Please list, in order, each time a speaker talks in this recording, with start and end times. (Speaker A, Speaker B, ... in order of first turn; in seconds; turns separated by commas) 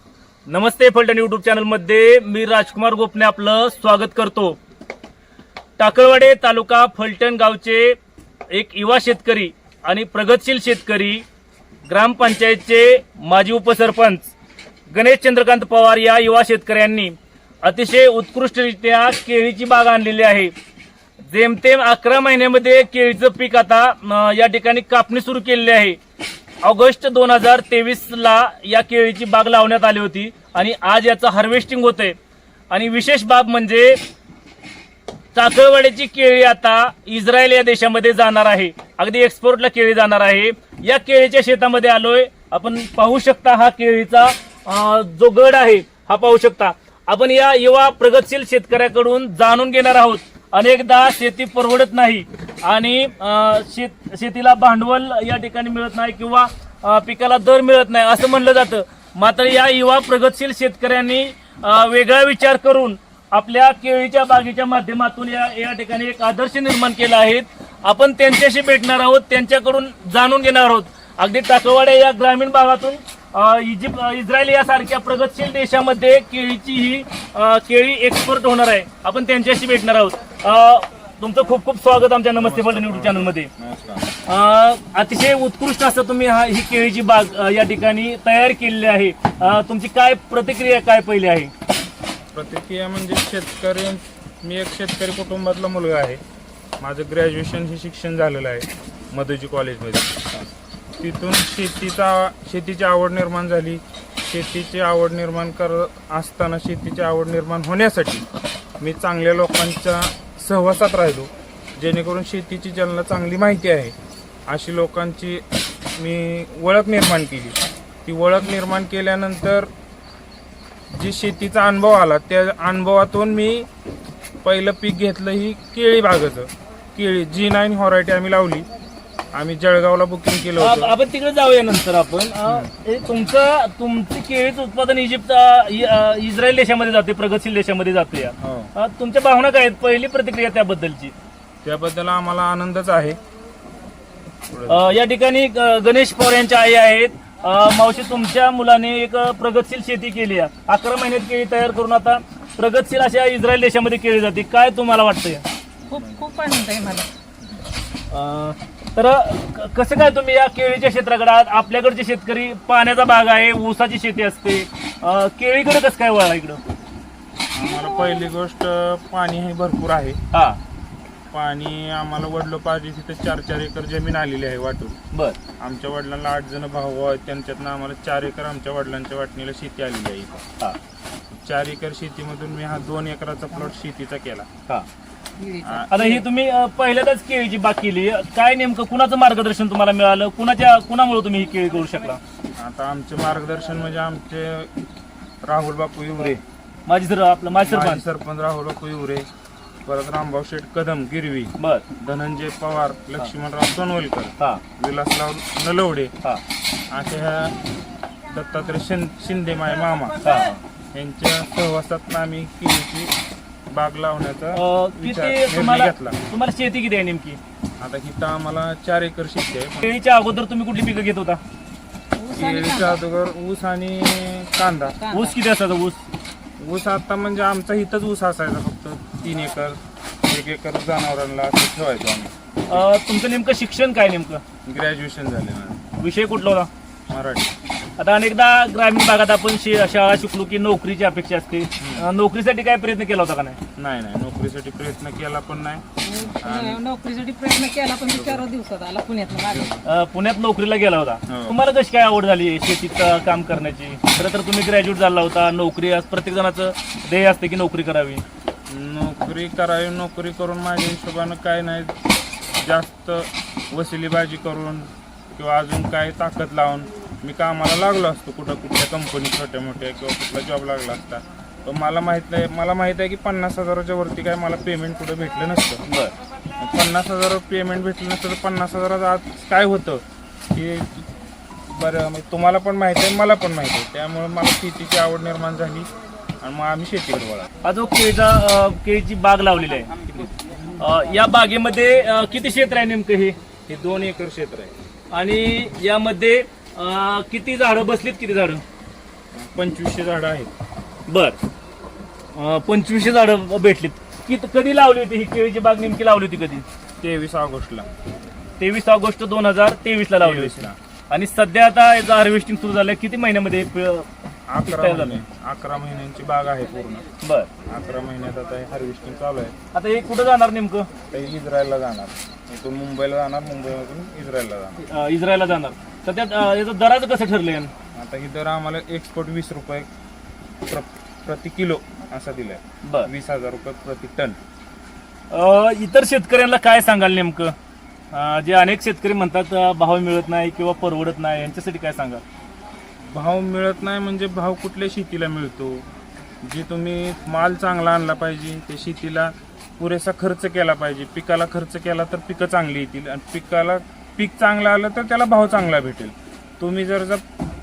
Speaker A: 0.5-4.6, Speaker A: 5.8-8.0, Speaker A: 8.5-11.2, Speaker A: 11.9-14.3, Speaker A: 14.9-20.5, Speaker A: 21.2-26.0, Speaker A: 26.6-32.1, Speaker A: 32.7-34.0, Speaker A: 35.3-83.5, Speaker B: 82.4-84.1, Speaker A: 84.2-91.5, Speaker B: 92.3-96.2, Speaker B: 96.8-100.2, Speaker B: 101.0-108.2, Speaker B: 108.8-113.9, Speaker B: 114.5-115.4, Speaker B: 116.0-119.7, Speaker B: 120.9-123.7, Speaker B: 124.4-128.7, Speaker B: 129.3-130.9, Speaker A: 130.6-141.1, Speaker B: 138.4-138.7, Speaker B: 141.6-143.2, Speaker B: 144.5-144.8, Speaker A: 144.7-155.4, Speaker B: 155.9-156.2, Speaker C: 155.9-157.1, Speaker A: 158.1-166.6, Speaker B: 167.5-170.2, Speaker A: 170.3-170.6, Speaker B: 171.3-174.9, Speaker A: 175.1-175.4, Speaker B: 175.6-180.4, Speaker B: 181.3-184.5, Speaker C: 185.4-186.2, Speaker B: 185.6-185.9, Speaker A: 185.9-192.2, Speaker B: 192.6-194.7, Speaker B: 195.4-196.4, Speaker A: 196.2-198.0, Speaker B: 197.6-199.3, Speaker B: 199.9-206.1, Speaker A: 201.6-201.9, Speaker B: 206.9-207.6, Speaker B: 208.3-210.2, Speaker A: 210.2-210.6, Speaker B: 210.9-213.1, Speaker B: 213.7-216.2, Speaker A: 214.5-217.4, Speaker B: 217.8-220.0, Speaker A: 219.8-221.4, Speaker C: 222.2-223.0, Speaker B: 222.3-225.1, Speaker C: 225.0-225.3, Speaker A: 225.1-226.0, Speaker B: 226.6-232.3, Speaker A: 232.7-234.4, Speaker B: 234.7-235.9, Speaker A: 236.0-236.7, Speaker B: 237.1-237.5, Speaker A: 238.0-243.6, Speaker B: 243.8-246.8, Speaker C: 246.0-249.7, Speaker B: 248.1-248.4, Speaker B: 249.4-249.8, Speaker A: 249.8-258.2, Speaker B: 251.3-251.6, Speaker B: 258.7-261.9, Speaker B: 262.6-275.8, Speaker A: 275.9-276.1, Speaker B: 276.6-281.1, Speaker B: 281.7-285.9, Speaker B: 286.4-287.5, Speaker A: 287.6-289.9, Speaker A: 290.8-293.4, Speaker B: 293.7-294.7, Speaker A: 295.1-298.6, Speaker B: 299.3-300.5, Speaker A: 301.1-301.4, Speaker A: 302.3-306.6, Speaker B: 307.0-307.9, Speaker A: 308.6-314.1, Speaker B: 310.2-310.8, Speaker B: 314.5-317.0, Speaker A: 314.6-315.2, Speaker A: 317.2-317.5, Speaker B: 317.7-319.5, Speaker A: 319.7-320.9, Speaker B: 321.1-324.8, Speaker A: 324.8-327.7, Speaker B: 327.9-329.9, Speaker B: 330.7-334.4, Speaker A: 332.8-333.1, Speaker A: 335.3-337.6, Speaker A: 338.1-342.2, Speaker B: 343.1-345.9, Speaker B: 346.4-357.2